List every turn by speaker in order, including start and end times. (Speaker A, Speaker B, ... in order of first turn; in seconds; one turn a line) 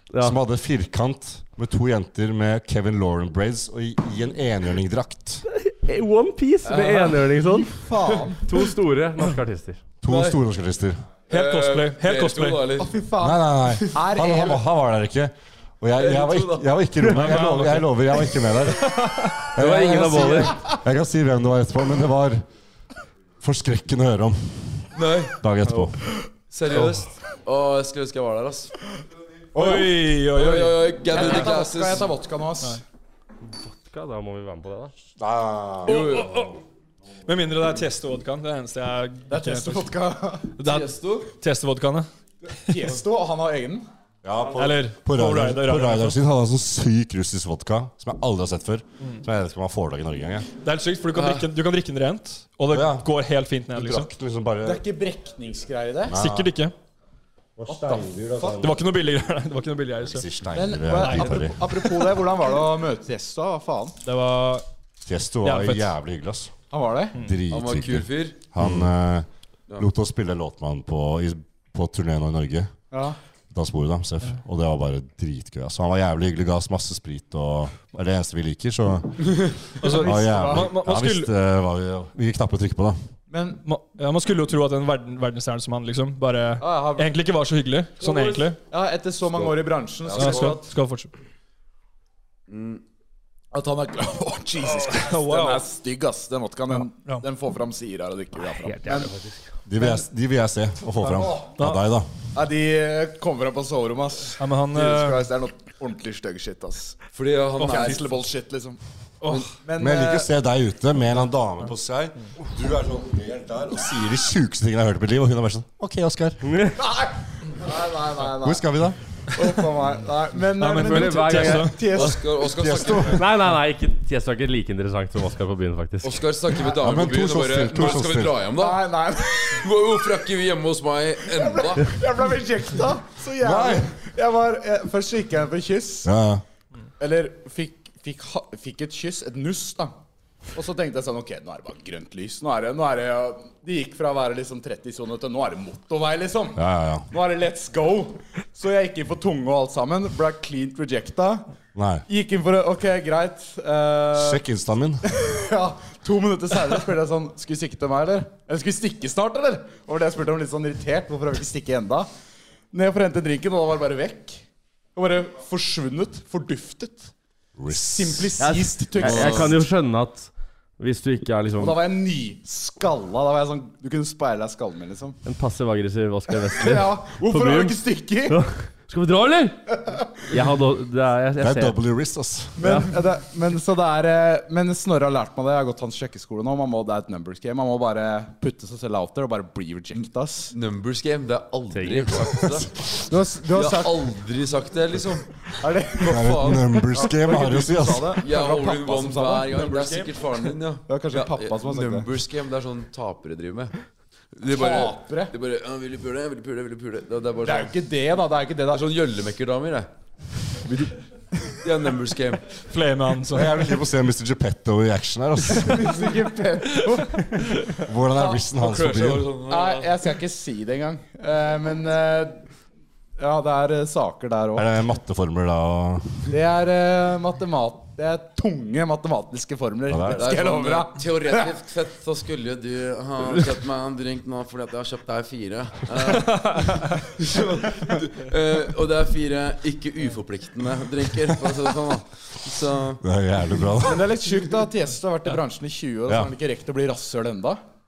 Speaker A: 0.1-0.4
Speaker B: 0.2-5.4
Speaker A: 5.5-9.8
Speaker C: 6.7-7.1
Speaker D: 6.8-8.5
Speaker B: 10.0-11.0
Speaker C: 10.1-10.4
Speaker E: 11.3-12.7
Speaker C: 11.3-12.9
Speaker D: 12.8-14.6
Speaker B: 13.2-22.4
Speaker C: 16.0-16.7
Speaker E: 17.1-17.9
Speaker A: 19.4-20.6
Speaker D: 19.8-20.6
Speaker B: 23.4-26.0
Speaker C: 24.9-25.4
Speaker C: 26.5-28.7
Speaker E: 26.7-27.0
Speaker E: 29.6-31.5
Speaker C: 29.6-32.1
Speaker D: 31.1-32.8
Speaker A: 33.5-34.9
Speaker B: 35.2-36.2
Speaker C: 35.9-36.6
Speaker E: 35.9-36.5
Speaker E: 37.3-40.0
Speaker D: 39.3-40.5
Speaker E: 40.6-42.1
Speaker C: 40.6-41.3
Speaker D: 42.7-43.9
Speaker B: 44.2-50.5
Speaker E: 44.6-46.2
Speaker E: 50.6-54.1
Speaker C: 51.1-51.5
Speaker B: 52.7-53.1
Speaker B: 53.7-54.8
Speaker D: 54.6-56.2
Speaker B: 56.1-56.5
Speaker E: 56.1-56.8
Speaker B: 57.6-58.8
Speaker D: 57.7-58.7
Speaker E: 58.6-60.3
Speaker B: 60.1-61.8
Speaker D: 60.5-64.0
Speaker E: 60.9-62.1
Speaker E: 64.0-64.7
Speaker B: 65.0-66.5
Speaker E: 65.4-65.9
Speaker D: 66.7-67.3
Speaker B: 67.2-69.3
Speaker C: 67.5-68.4
Speaker B: 69.8-72.7
Speaker D: 72.9-73.2
Speaker B: 73.5-83.0
Speaker C: 79.3-79.6
Speaker E: 79.8-81.3
Speaker D: 79.8-80.7
Speaker D: 83.3-83.6
Speaker E: 83.7-88.6
Speaker D: 86.6-87.2
Speaker C: 88.1-88.4
Speaker D: 88.7-90.7
Speaker E: 90.1-91.1
Speaker C: 92.5-92.8
Speaker D: 93.5-99.1
Speaker E: 94.9-95.6
Speaker A: 98.6-99.4
Speaker B: 99.7-102.1
Speaker D: 99.8-100.0
Speaker D: 101.0-101.5
Speaker E: 101.6-101.8
Speaker D: 102.3-107.0
Speaker E: 104.4-105.3
Speaker C: 107.1-108.0
Speaker E: 107.6-108.0
Speaker D: 107.6-108.8
Speaker E: 109.2-109.5
Speaker D: 109.5-110.3
Speaker B: 109.8-116.4
Speaker A: 116.4-116.8
Speaker D: 116.8-118.7
Speaker B: 118.4-119.0
Speaker D: 119.3-122.2
Speaker E: 120.6-122.0
Speaker A: 120.9-121.6
Speaker C: 121.8-123.2
Speaker B: 122.4-123.3
Speaker A: 123.1-126.2
Speaker C: 126.0-128.8
Speaker B: 126.6-128.4
Speaker D: 128.6-129.7
Speaker C: 129.5-131.9
Speaker D: 131.3-136.1
Speaker B: 133.4-133.9
Speaker B: 136.1-136.4
Speaker D: 137.0-139.9
Speaker D: 140.5-151.5
Speaker B: 146.6-147.1
Speaker B: 151.8-152.1
Speaker D: 152.1-154.4
Speaker B: 154.1-155.0
Speaker D: 155.1-162.1
Speaker D: 162.7-164.4
Speaker D: 164.9-167.1
Speaker B: 167.6-168.3
Speaker D: 167.7-169.7
Speaker A: 168.4-171.8
Speaker C: 169.0-169.5
Speaker D: 171.6-175.2
Speaker A: 175.2-179.6
Speaker D: 176.4-178.4
Speaker D: 179.8-180.1
Speaker A: 180.2-181.8
Speaker B: 181.4-182.7
Speaker D: 182.6-190.5
Speaker A: 182.6-182.9
Speaker C: 190.5-192.7
Speaker A: 191.7-192.3
Speaker D: 192.9-194.1
Speaker C: 193.5-196.8
Speaker D: 195.6-199.5
Speaker B: 196.1-198.2
Speaker C: 198.2-203.8
Speaker E: 199.5-200.1
Speaker D: 200.9-202.1
Speaker C: 204.3-207.7
Speaker D: 204.5-205.3
Speaker D: 207.4-208.9
Speaker C: 208.7-209.9
Speaker D: 210.7-211.6
Speaker C: 211.6-212.6
Speaker E: 212.7-213.6
Speaker B: 213.3-215.9
Speaker D: 215.6-218.4
Speaker B: 217.8-219.3
Speaker C: 218.6-219.9
Speaker D: 219.5-222.4
Speaker D: 223.2-224.7
Speaker B: 224.6-226.3
Speaker D: 226.3-231.5
Speaker B: 229.9-230.3
Speaker C: 230.2-243.0
Speaker E: 236.3-236.9
Speaker B: 243.0-244.1
Speaker D: 243.8-247.6
Speaker B: 246.1-246.3